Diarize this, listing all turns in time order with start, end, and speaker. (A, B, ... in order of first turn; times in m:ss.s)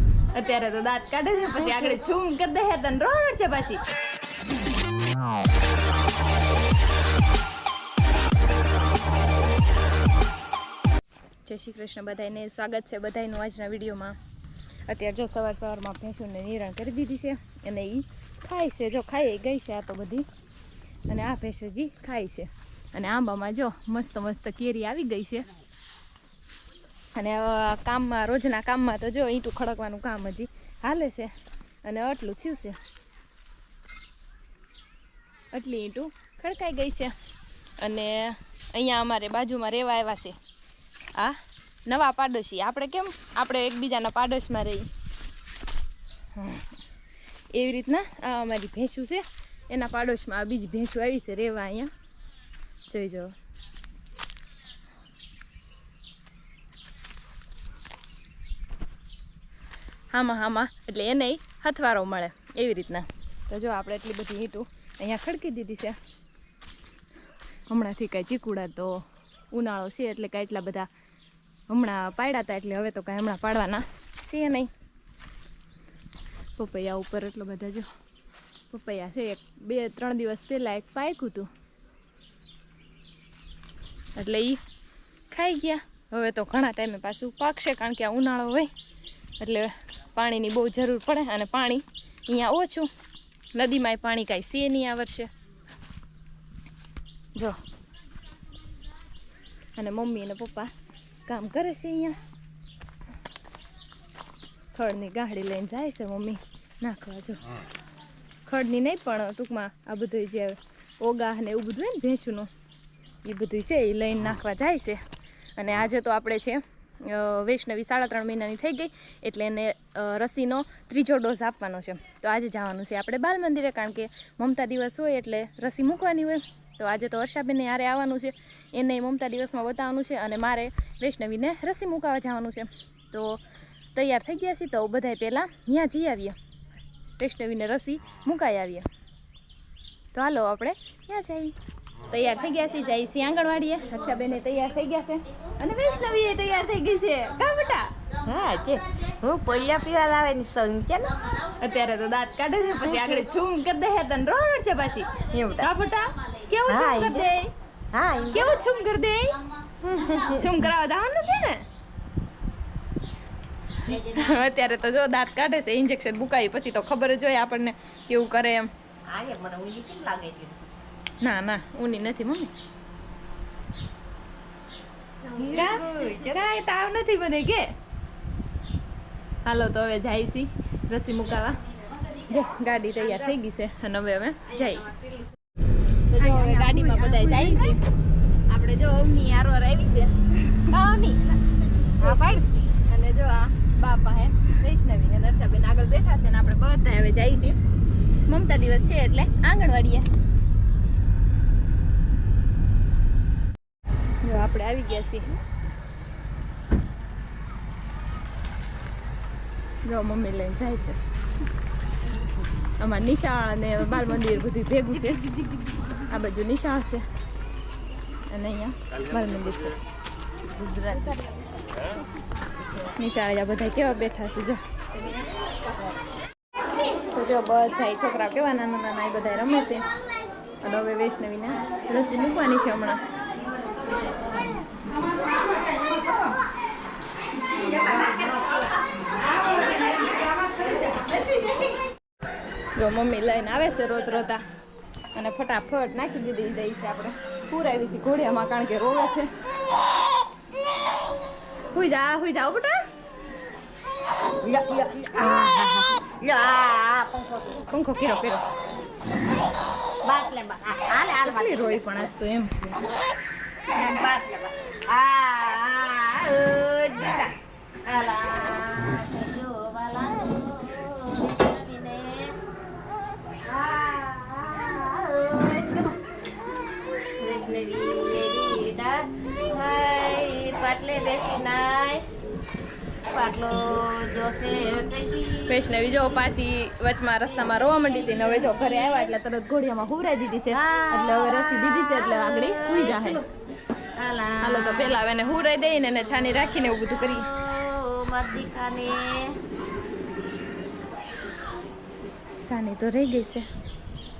0:00.4-0:03.8 A
0:11.5-0:14.2 A
0:14.9-0:20.3 A
0:21.1-0:25.5 A
0:27.2-0:31.3 A
0:31.8-0:32.8 A
0:35.5-0:37.1 A
0:37.8-0:40.4 A
0:41.2-0:44.9 A
0:46.4-0:46.7 A
0:47.5-0:51.9 A
0:52.9-0:53.3 A
1:00.1-1:06.0 A
1:07.7-1:10.9 A
1:11.7-1:14.7 A
1:16.6-1:17.9 A
1:18.7-1:21.5 A
1:24.2-1:24.6 A
1:25.3-1:28.7 A
1:29.4-1:32.9 A
1:33.5-1:35.3 A
1:39.8-1:40.7 A
1:41.3-1:42.2 A
1:44.8-1:47.4 A
1:48.5-1:52.5 A
1:53.2-1:55.0 A
1:55.6-2:13.4 A
2:14.0-2:16.4 A
2:17.2-2:18.8 A
2:20.1-2:21.6 A
2:22.1-2:27.9 A
2:28.2-2:31.4 B
2:31.6-2:37.5 A
2:32.9-2:33.2 B
2:35.3-2:35.7 B
2:36.7-2:37.3 B
2:37.9-2:38.6 B
2:38.3-2:39.4 A
2:39.8-2:40.4 B
2:40.0-2:41.6 A
2:43.8-2:48.7 A
2:49.1-2:50.7 B
2:51.2-2:52.5 A
2:55.2-2:56.4 B
2:55.4-2:57.7 A
2:59.5-3:01.6 A
3:02.2-3:05.0 A
3:06.1-3:07.8 A
3:06.2-3:07.8 B
3:08.5-3:11.4 A
3:12.0-3:17.6 A
3:12.0-3:12.5 B
3:18.3-3:20.1 A
3:24.2-3:25.3 A
3:29.9-3:31.0 A
3:32.8-3:35.3 A
3:36.0-3:37.0 A
3:38.3-3:39.8 A
3:40.6-3:41.3 B
3:43.0-3:44.6 A
3:47.1-3:49.8 A
3:50.6-3:53.0 A
4:02.8-4:04.4 A
4:05.1-4:09.3 A
4:11.7-4:12.8 A
4:14.4-4:17.7 B
4:17.7-4:18.4 A
4:20.0-4:22.1 B
4:21.2-4:22.8 A
4:23.7-4:27.3 B
4:27.9-4:32.4 B
4:33.4-4:36.0 B
4:37.0-4:42.0 B
4:43.1-4:46.0 B
4:45.5-4:53.2 A
4:47.4-4:49.1 B
4:50.5-4:53.2 B
4:53.9-4:55.0 B
4:54.4-4:57.3 A
4:56.6-4:59.4 B
5:02.4-5:03.5 A